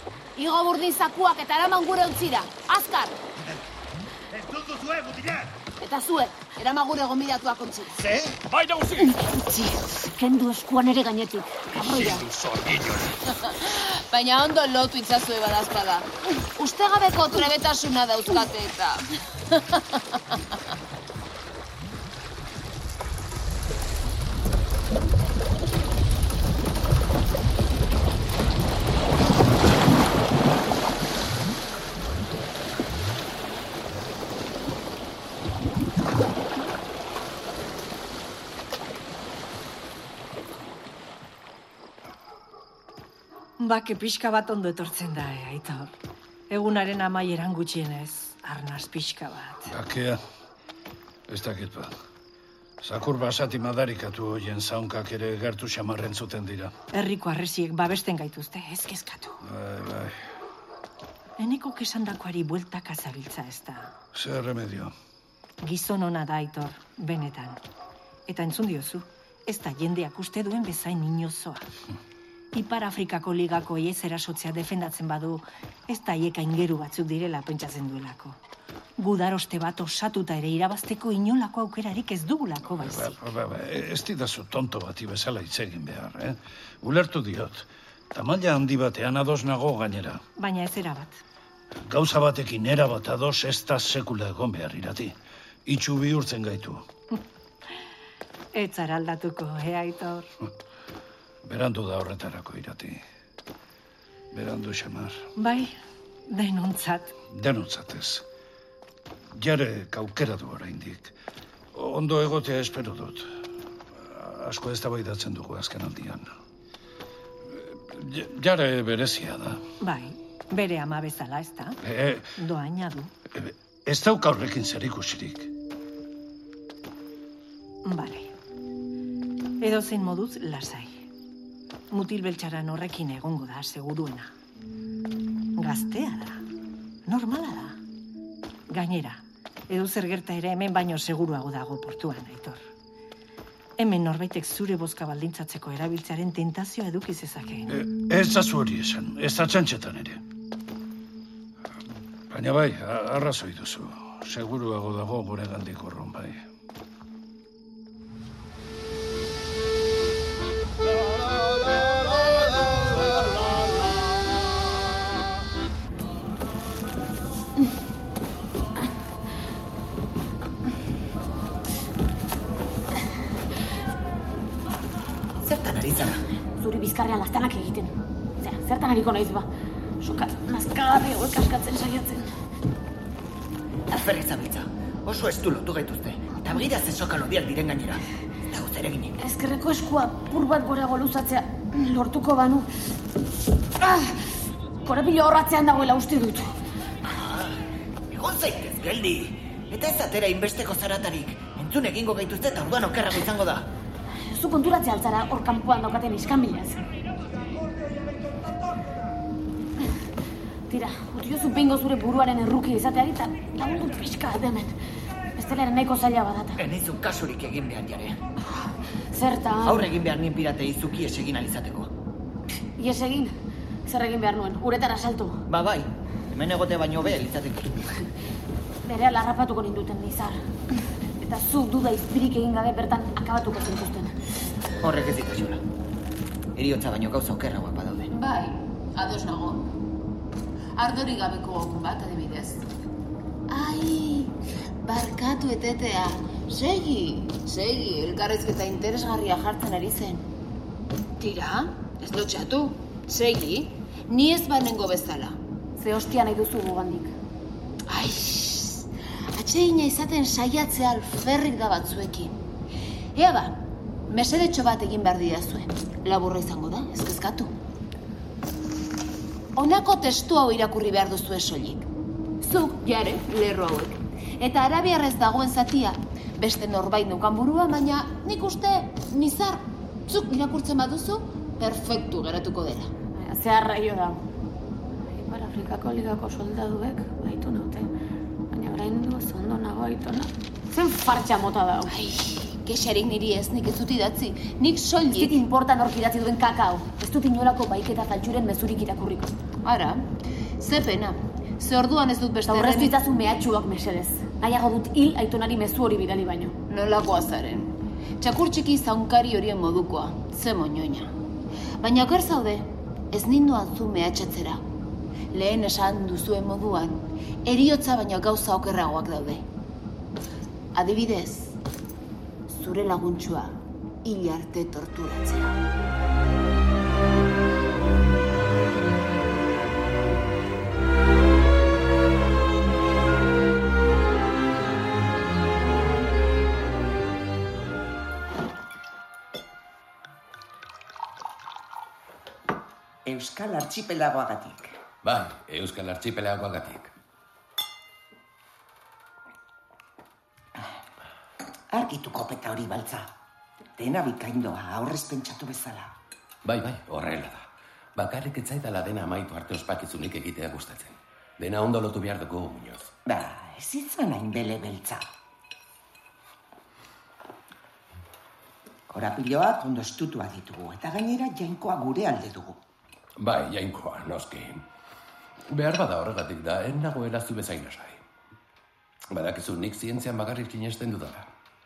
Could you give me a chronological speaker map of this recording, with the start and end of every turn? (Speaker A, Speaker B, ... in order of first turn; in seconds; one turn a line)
Speaker A: 0.4-3.2
Speaker B: 4.3-5.5
Speaker A: 5.8-8.0
Speaker B: 8.0-8.4
Speaker C: 9.0-11.6
Speaker A: 11.8-12.3
Speaker B: 11.8-13.2
Speaker A: 13.4-19.1
Speaker D: 43.6-45.9
Speaker D: 46.5-49.7
Speaker E: 49.7-50.2
Speaker E: 51.3-51.9
Speaker E: 52.8-56.7
Speaker D: 56.9-59.4
Speaker E: 59.5-60.1
Speaker D: 61.4-63.9
Speaker E: 64.1-64.9
Speaker D: 65.6-67.6
Speaker D: 68.3-71.7
Speaker D: 72.5-78.4
Speaker D: 79.0-83.2
Speaker E: 82.8-90.2
Speaker D: 90.4-91.2
Speaker E: 91.9-95.2
Speaker E: 95.7-96.8
Speaker D: 98.5-100.3
Speaker E: 101.4-103.0
Speaker E: 104.3-105.2
Speaker D: 105.4-105.7
Speaker D: 106.3-107.2
Speaker E: 107.3-108.2
Speaker E: 109.3-111.1
Speaker E: 111.7-113.3
Speaker E: 114.0-116.3
Speaker E: 117.7-119.6
Speaker D: 119.8-121.8
Speaker E: 121.8-122.3
Speaker D: 122.4-123.1
Speaker E: 123.4-125.5
Speaker D: 127.8-128.3
Speaker D: 129.6-131.1
Speaker D: 131.9-134.3
Speaker D: 135.6-136.4
Speaker D: 137.1-137.8
Speaker D: 138.7-142.7
Speaker D: 143.8-147.7
Speaker E: 147.7-150.2
Speaker E: 152.3-156.4
Speaker F: 175.4-176.2
Speaker C: 176.6-179.5
Speaker C: 180.0-182.3
Speaker F: 183.9-189.2
Speaker C: 189.2-192.7
Speaker C: 193.8-194.2
Speaker C: 194.8-196.5
Speaker F: 197.1-197.6
Speaker F: 198.1-203.7
Speaker C: 204.2-206.8
Speaker C: 210.7-214.8
Speaker C: 215.4-216.6
Speaker F: 216.6-218.2
Speaker C: 219.1-219.9
Speaker F: 219.7-221.9
Speaker C: 222.8-223.3
Speaker C: 223.9-225.4
Speaker F: 225.5-228.0
Speaker C: 228.8-230.4
Speaker C: 231.2-234.1
Speaker F: 234.8-235.6
Speaker F: 236.6-238.1
Speaker A: 238.1-239.7
Speaker A: 240.8-242.6
Speaker A: 243.5-250.2
Speaker A: 251.2-255.4
Speaker C: 255.8-257.1
Speaker A: 257.9-262.3
Speaker A: 263.1-267.5
Speaker A: 269.6-271.9
Speaker A: 272.4-282.9
Speaker C: 283.1-284.2
Speaker C: 285.1-287.9
Speaker C: 288.5-292.0
Speaker A: 291.9-295.4
Speaker C: 295.1-299.3
Speaker A: 299.6-300.1
Speaker A: 300.6-302.9
Speaker C: 302.5-306.6
Speaker A: 306.7-311.1
Speaker A: 311.8-314.6
Speaker A: 315.3-319.4
Speaker A: 320.7-321.6
Speaker A: 322.5-325.6
Speaker G: 343.1-344.8
Speaker H: 345.0-346.9
Speaker G: 351.7-353.1
Speaker G: 353.8-355.9
Speaker H: 356.4-357.4
Speaker H: 358.0-362.9
Speaker G: 363.1-365.1
Speaker G: 368.9-372.6
Speaker H: 373.2-374.7
Speaker H: 375.5-378.0
Speaker H: 379.1-381.3